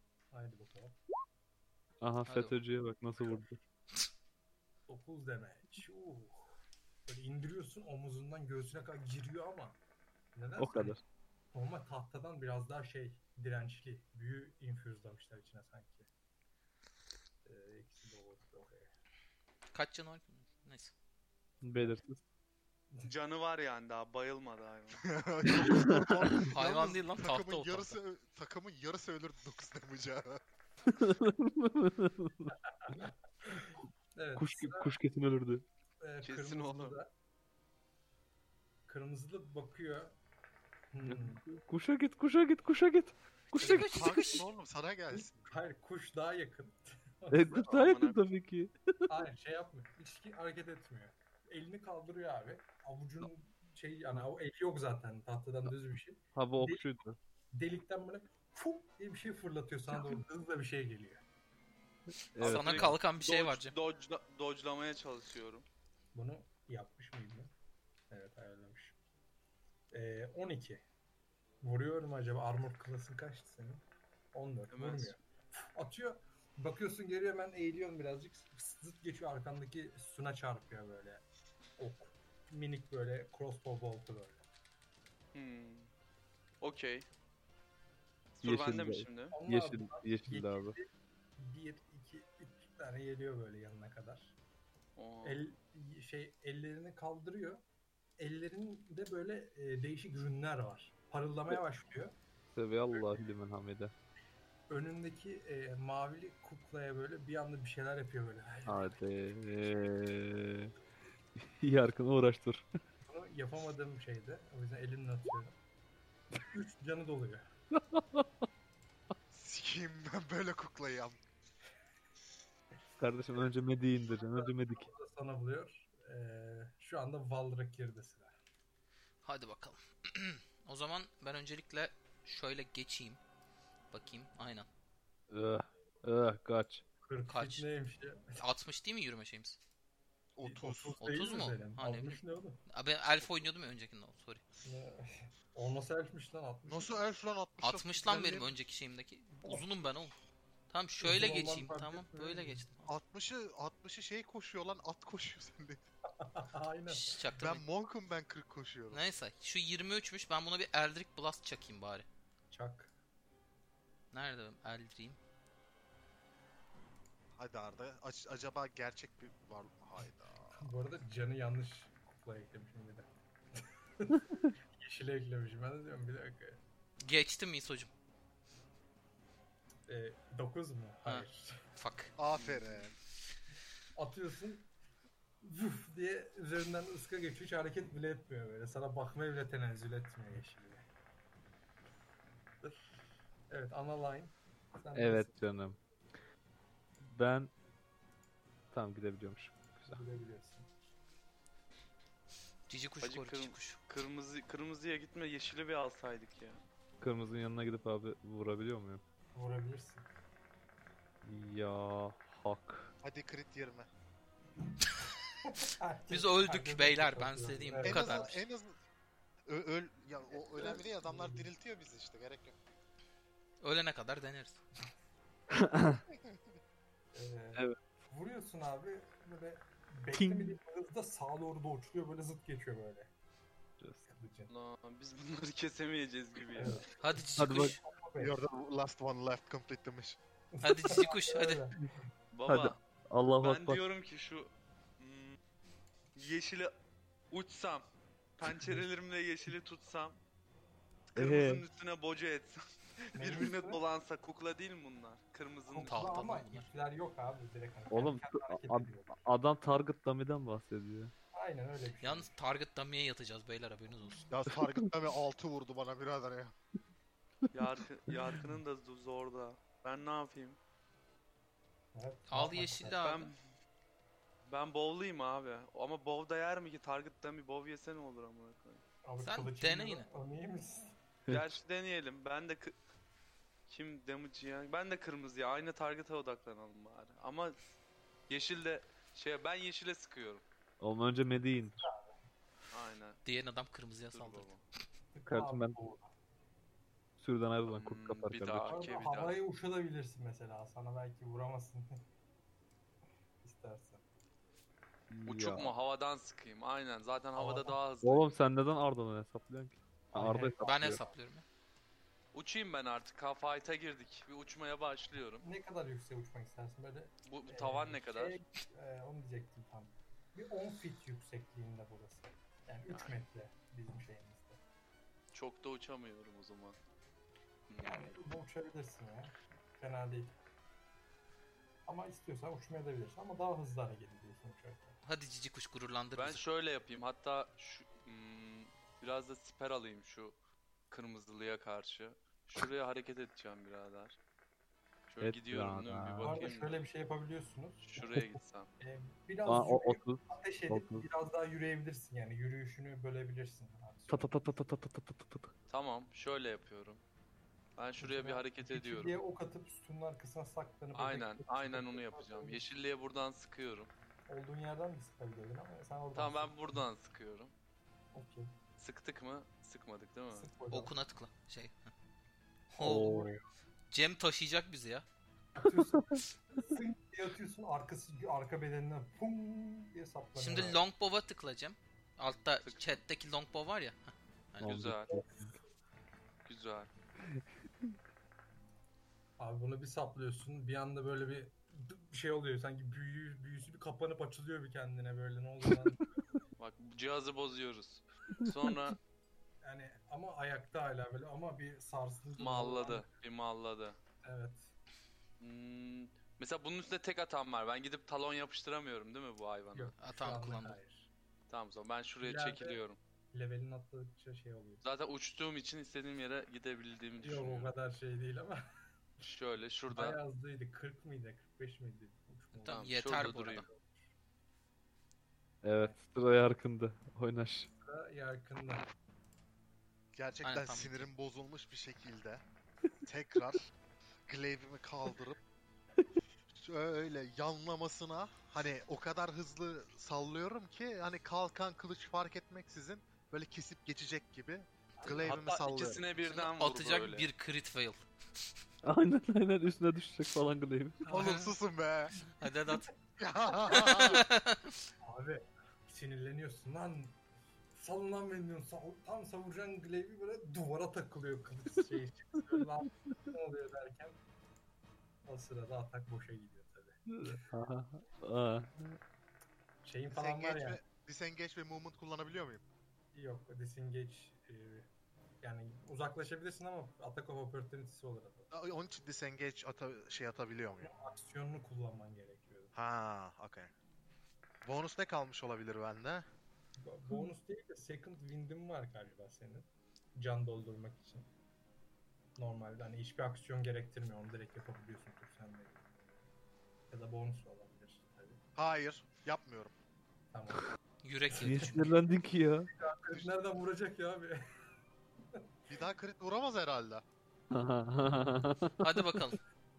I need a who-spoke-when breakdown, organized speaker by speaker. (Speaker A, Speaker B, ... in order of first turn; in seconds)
Speaker A: 0.3-1.0, 4.9-6.5, 7.1-9.8, 10.3-11.0, 11.5-16.1, 17.4-18.9, 32.8-33.6, 34.1-34.9, 36.0-37.1, 38.9-40.1, 40.9-41.4, 45.1-47.7, 49.1-56.9, 57.5-61.2, 66.1-67.5, 68.1-69.0, 69.9-70.8, 71.6-81.2, 81.8-84.4, 89.3-94.4, 95.2-97.6, 98.2-102.2, 102.9-103.2, 104.7-109.0, 113.1-115.5, 116.3-117.5, 124.1-128.3, 137.0-138.4, 140.4-142.6, 144.6-147.0, 149.4-150.2, 151.0-152.7, 156.3-157.3, 162.5-162.9, 170.6-174.2, 174.8-176.6, 179.9-181.6, 184.0-184.7, 185.4-190.8, 193.5-195.3, 199.9-200.7, 209.3-210.1, 215.5-218.4, 220.6-221.5, 227.1-233.1, 234.0-234.5, 236.5-238.4, 240.6-241.8, 248.5-248.8, 253.2-253.8, 255.7-259.1, 261.3-262.4, 271.9-273.0, 279.0-280.9, 291.8-292.2, 295.1-296.1, 298.7-302.0, 303.4-304.0, 307.4-307.8, 310.1-311.2, 315.4-324.6, 327.8-330.4, 331.9-335.0, 346.2-354.5, 358.0-362.6, 364.3-366.8, 368.1-368.5, 370.3-370.9, 372.7-373.4, 375.6-380.9, 389.4-396.1, 399.6-403.1, 404.2-404.7, 409.7-411.1, 412.2-412.8, 413.3-414.9, 417.2-418.6, 419.9-424.1, 427.8-428.9, 445.0-445.4, 451.0-451.5, 452.2-452.9, 455.0-457.2, 457.8-464.2, 465.3-467.4, 469.8-470.8, 473.1-474.9, 475.4-478.5, 480.8-482.7, 486.8-491.3, 492.4-495.8, 496.9-498.4, 500.3-500.7, 501.3-501.7, 502.7-504.4
Speaker B: 2.0-3.6, 10.6-11.0, 21.6-22.2, 25.9-26.4, 30.9-32.5, 34.4-35.6, 41.1-44.0, 47.3-49.1, 56.4-57.2, 62.3-62.9, 88.4-90.8, 102.5-103.9, 108.7-110.7, 111.4-112.7, 117.7-118.4, 123.0-124.9, 135.3-136.8, 194.9-195.8, 197.0-197.5, 198.7-200.0, 207.0-209.0, 211.2-212.9, 225.6-226.0, 230.1-230.6, 237.4-237.8, 242.5-243.8, 251.2-251.6, 257.9-261.1, 264.5-264.8, 290.8-291.9, 295.3-295.8, 297.2-298.8, 305.1-305.7, 308.0-311.0, 345.2-346.4, 349.5-351.1, 354.1-355.5, 372.8-373.4, 384.6-385.5, 425.6-427.7, 448.8-451.1, 467.1-469.0, 501.4-502.7, 507.5-509.2
Speaker C: 2.3-2.5, 19.7-20.9, 26.5-28.0, 43.6-44.5, 62.4-63.7, 129.2-133.2, 133.9-134.7, 137.3-137.7, 138.4-139.6, 141.0-144.4, 147.6-150.2, 150.7-152.9, 156.9-157.6, 158.9-162.1, 164.1-165.2, 177.0-177.9, 181.8-182.1, 202.7-203.8, 216.1-218.4, 223.6-224.6, 237.0-237.8, 240.6-241.6, 255.8-256.7, 262.0-264.3, 272.3-273.3, 279.2-280.1, 293.2-294.5, 310.6-311.4, 335.0-336.4, 370.7-371.9, 372.8-373.1, 373.9-375.1, 380.4-384.7, 410.0-410.8, 422.6-423.6, 430.4-431.1, 446.2-448.0, 451.1-451.5, 452.4-452.9, 453.7-454.8, 501.0-501.8, 508.8-509.4
Speaker D: 23.0-25.1, 36.2-36.9, 47.6-48.2, 62.4-65.7, 74.7-75.2, 85.3-85.9, 86.6-87.1, 88.4-89.3, 95.0-95.4, 203.0-206.6, 234.5-236.8, 242.3-242.8, 243.4-245.4, 246.2-246.7, 247.3-247.9, 248.4-250.2, 251.1-256.2, 267.5-270.6, 273.0-273.4, 274.5-278.8, 281.3-282.8, 283.7-287.6, 288.3-290.4, 292.7-293.2, 294.1-294.6, 297.6-299.4, 305.3-308.4, 312.3-315.4, 317.3-318.4, 322.9-323.2, 325.3-326.8, 327.7-328.1, 336.2-340.4, 340.9-344.2, 345.1-346.8, 347.8-348.7, 355.7-357.0, 357.8-359.2, 360.9-363.9, 366.1-367.5, 368.8-370.5, 382.6-383.0, 384.6-385.1, 386.5-386.9, 396.6-399.0, 402.4-404.0, 405.4-409.9, 411.5-413.0, 414.8-417.7, 419.2-420.2, 422.7-423.7, 445.2-447.3
Speaker E: 25.0-30.4, 43.9-45.5, 119.3-121.2, 140.4-141.0, 146.7-148.5, 152.9-155.8, 157.4-159.1, 167.4-170.6, 182.2-182.9, 213.0-213.9, 217.8-218.8, 219.5-222.6, 238.2-240.2, 264.3-266.5, 430.1-432.4, 433.0-433.7, 434.3-435.4, 436.6-446.0, 451.1-452.1, 453.2-454.2, 470.1-472.6, 478.5-480.9, 482.7-483.7, 484.6-486.3, 498.6-499.7, 505.7-507.1